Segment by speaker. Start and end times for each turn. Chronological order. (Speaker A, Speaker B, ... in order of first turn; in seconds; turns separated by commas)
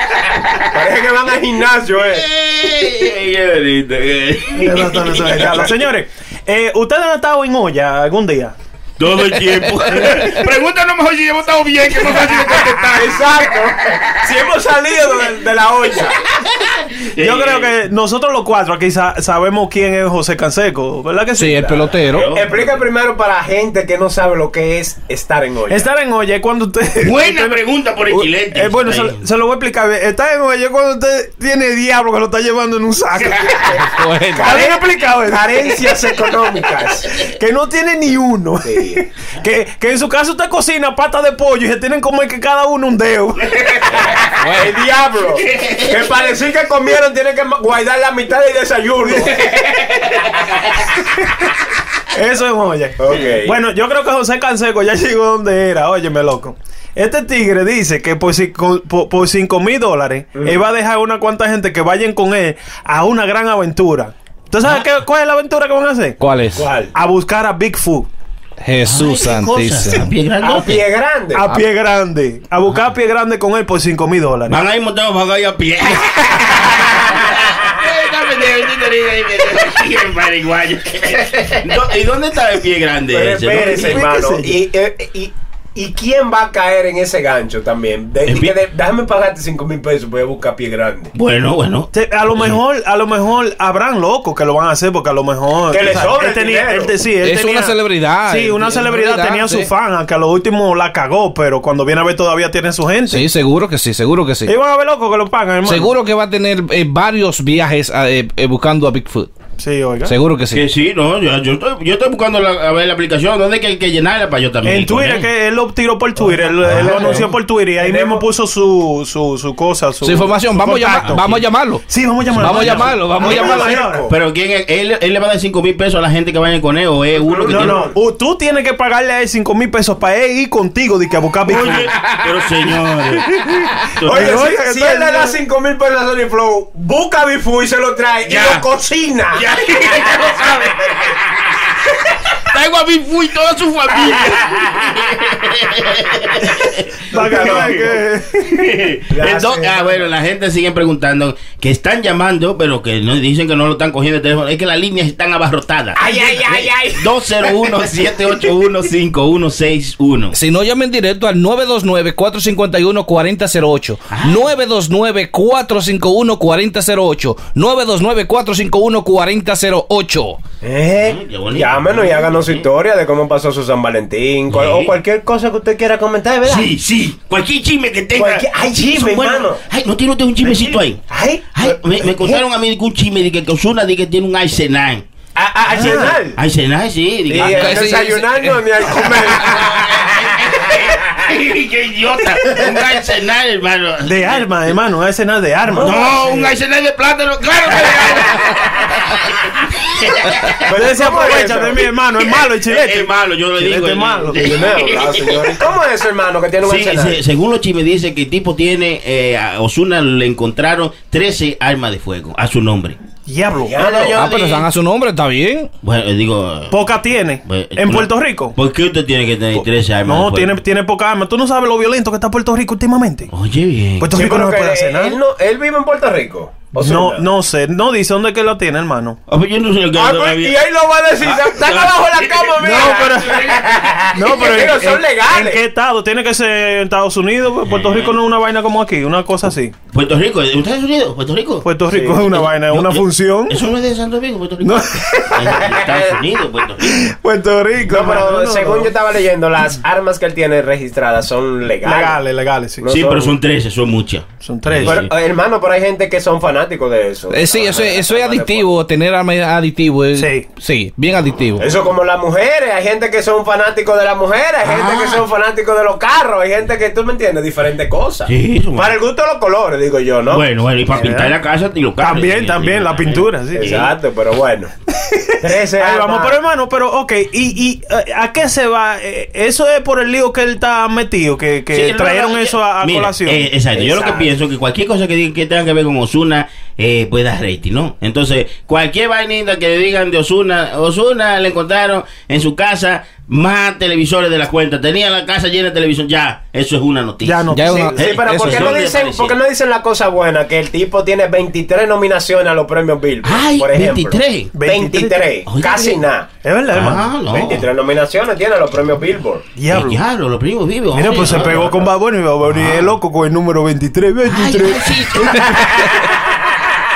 Speaker A: 0.7-2.2, Speaker B: 2.0-5.7, Speaker C: 4.6-8.6, Speaker B: 9.0-13.2, Speaker C: 9.8-10.3, Speaker A: 12.1-16.2, Speaker B: 16.9-17.7, Speaker C: 17.2-21.8, Speaker D: 21.4-22.3, Speaker B: 22.1-22.5, Speaker A: 22.2-25.9, Speaker C: 25.7-33.7, Speaker B: 27.0-29.2, Speaker A: 33.2-37.2, Speaker D: 33.8-34.5, Speaker C: 34.4-35.9, Speaker C: 37.3-43.5, Speaker A: 38.6-39.0, Speaker A: 43.6-50.4, Speaker D: 44.4-44.7, Speaker B: 45.3-46.3, Speaker C: 49.0-49.3, Speaker C: 52.1-66.2, Speaker A: 53.0-53.5, Speaker A: 60.4-60.6, Speaker D: 66.2-66.7, Speaker A: 66.5-66.9, Speaker C: 66.9-68.1, Speaker D: 68.6-70.0, Speaker B: 68.8-70.9, Speaker A: 70.4-71.6, Speaker C: 71.3-74.6, Speaker B: 74.5-84.0, Speaker A: 83.1-91.1, Speaker C: 83.8-84.6, Speaker B: 88.2-88.5, Speaker B: 91.1-92.6, Speaker C: 91.9-103.2, Speaker A: 95.7-97.0, Speaker D: 97.2-99.7, Speaker D: 103.1-104.5, Speaker C: 104.5-105.9, Speaker D: 105.6-109.3, Speaker C: 109.6-110.1, Speaker D: 110.0-110.6, Speaker B: 110.5-115.3, Speaker C: 114.6-124.0, Speaker A: 116.2-118.2, Speaker B: 116.7-117.2, Speaker D: 120.0-123.8, Speaker B: 122.4-123.4, Speaker A: 122.6-124.1, Speaker B: 124.1-127.8, Speaker A: 127.1-128.0, Speaker C: 127.5-131.9, Speaker B: 131.4-134.4, Speaker C: 134.0-135.4, Speaker A: 134.0-140.2, Speaker B: 138.2-138.7, Speaker B: 139.3-141.7, Speaker B: 142.4-160.3, Speaker A: 147.1-148.0, Speaker C: 147.1-148.7, Speaker A: 149.1-150.1, Speaker A: 155.9-157.7, Speaker D: 160.3-170.4, Speaker B: 164.1-164.5, Speaker A: 170.6-176.7, Speaker B: 171.0-172.7, Speaker B: 174.5-174.9, Speaker B: 176.4-185.0, Speaker A: 178.1-179.6, Speaker A: 181.1-182.4, Speaker A: 185.3-186.4, Speaker C: 185.7-186.1, Speaker B: 185.8-188.0, Speaker A: 187.3-190.7, Speaker D: 187.4-188.6, Speaker B: 188.9-194.6, Speaker C: 194.0-196.5, Speaker A: 195.7-196.2, Speaker B: 195.8-198.7, Speaker B: 199.9-200.5, Speaker A: 200.7-201.9, Speaker C: 200.7-204.4, Speaker B: 202.5-205.6, Speaker A: 204.4-207.2, Speaker B: 206.6-213.0, Speaker C: 213.2-213.8, Speaker A: 213.6-214.3, Speaker B: 213.7-214.7, Speaker D: 214.1-215.7, Speaker B: 215.8-216.9, Speaker C: 216.7-218.5, Speaker B: 217.4-220.6, Speaker C: 219.5-223.3, Speaker B: 223.3-224.1, Speaker C: 224.0-225.2, Speaker A: 224.1-227.2, Speaker C: 226.8-229.2, Speaker B: 229.3-230.6, Speaker A: 229.9-235.6, Speaker B: 231.2-232.8, Speaker C: 232.6-239.7, Speaker B: 237.6-238.2, Speaker B: 239.9-247.0, Speaker C: 241.6-243.6, Speaker A: 241.9-242.3, Speaker C: 244.6-245.6, Speaker A: 245.6-246.0, Speaker C: 246.8-248.9, Speaker A: 247.8-252.2, Speaker C: 251.8-252.8, Speaker A: 252.8-253.3, Speaker B: 252.9-255.1, Speaker C: 254.4-255.0, Speaker A: 254.8-258.8, Speaker D: 257.3-261.6, Speaker C: 260.1-260.4, Speaker A: 261.6-270.4, Speaker B: 264.6-265.2, Speaker B: 268.3-269.0, Speaker B: 270.3-273.9, Speaker C: 270.9-271.3, Speaker C: 272.0-273.8, Speaker A: 273.5-274.7, Speaker C: 275.0-283.5, Speaker A: 275.4-276.4, Speaker B: 281.7-299.4, Speaker A: 283.7-284.3, Speaker C: 297.2-297.9, Speaker D: 297.5-298.7, Speaker A: 297.7-306.3, Speaker B: 303.2-304.5, Speaker C: 304.5-305.2, Speaker B: 305.4-306.0, Speaker C: 306.4-307.1, Speaker B: 306.7-307.7, Speaker A: 307.3-309.4, Speaker C: 309.5-310.0, Speaker B: 309.7-311.8, Speaker C: 310.9-315.3, Speaker B: 312.5-312.9, Speaker B: 314.2-316.0